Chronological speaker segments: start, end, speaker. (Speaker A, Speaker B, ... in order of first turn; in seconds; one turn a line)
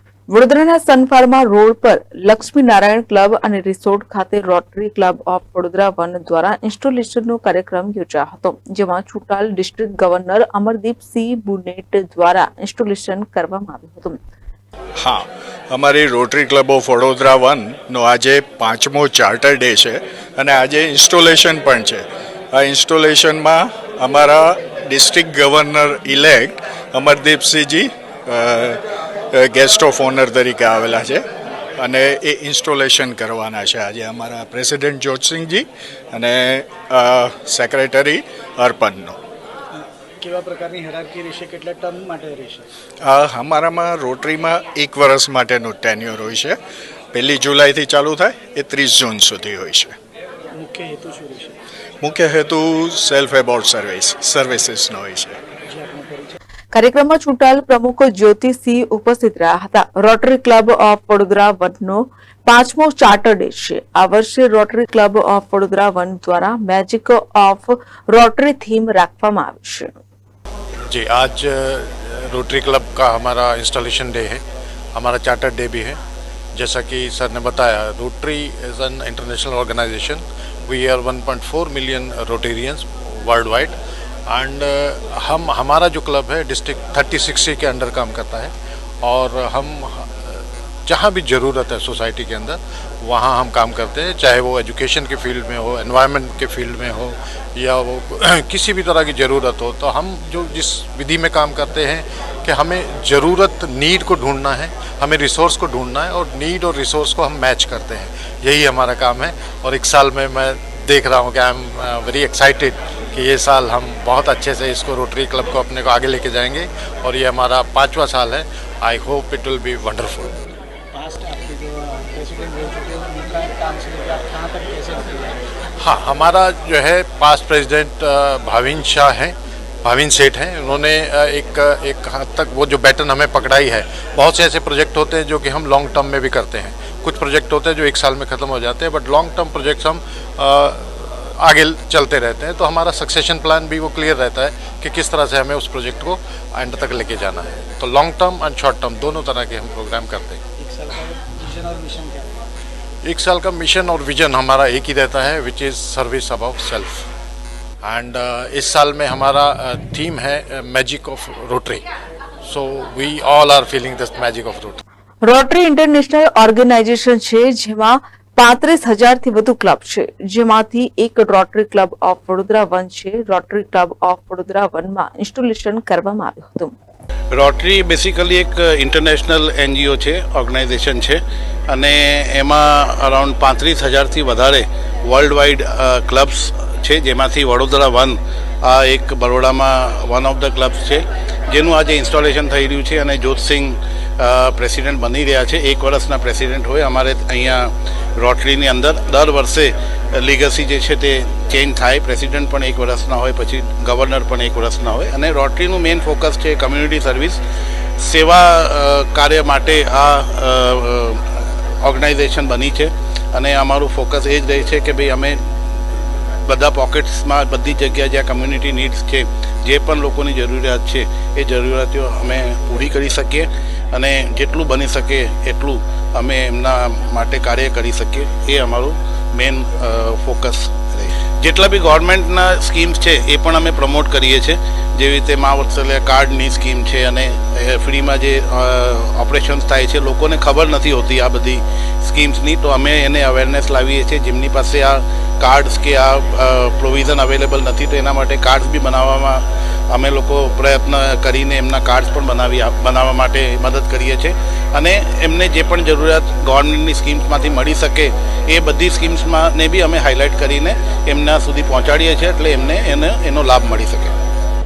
Speaker A: 0.3-14.2
Speaker B: 15.0-28.8
Speaker B: 29.3-31.2
Speaker B: 31.8-39.2
Speaker C: 39.7-42.7
Speaker B: 43.0-46.6
Speaker B: 47.1-49.9
Speaker C: 50.5-51.6
Speaker B: 52.0-55.4
Speaker C: 55.6-56.4
Speaker A: 56.7-69.9
Speaker D: 70.9-74.4
Speaker D: 74.9-76.0
Speaker D: 76.5-83.8
Speaker D: 84.3-88.5
Speaker D: 89.0-120.3
Speaker C: 120.9-125.5
Speaker D: 125.8-150.4
Speaker C: 150.6-152.4
Speaker D: 153.0-157.1
Speaker D: 157.8-161.8
Speaker D: 162.4-164.8
Speaker A: 165.2-176.7
Speaker E: 177.3-207.4
Speaker E: 208.0-215.4
Speaker E: 216.4-264.1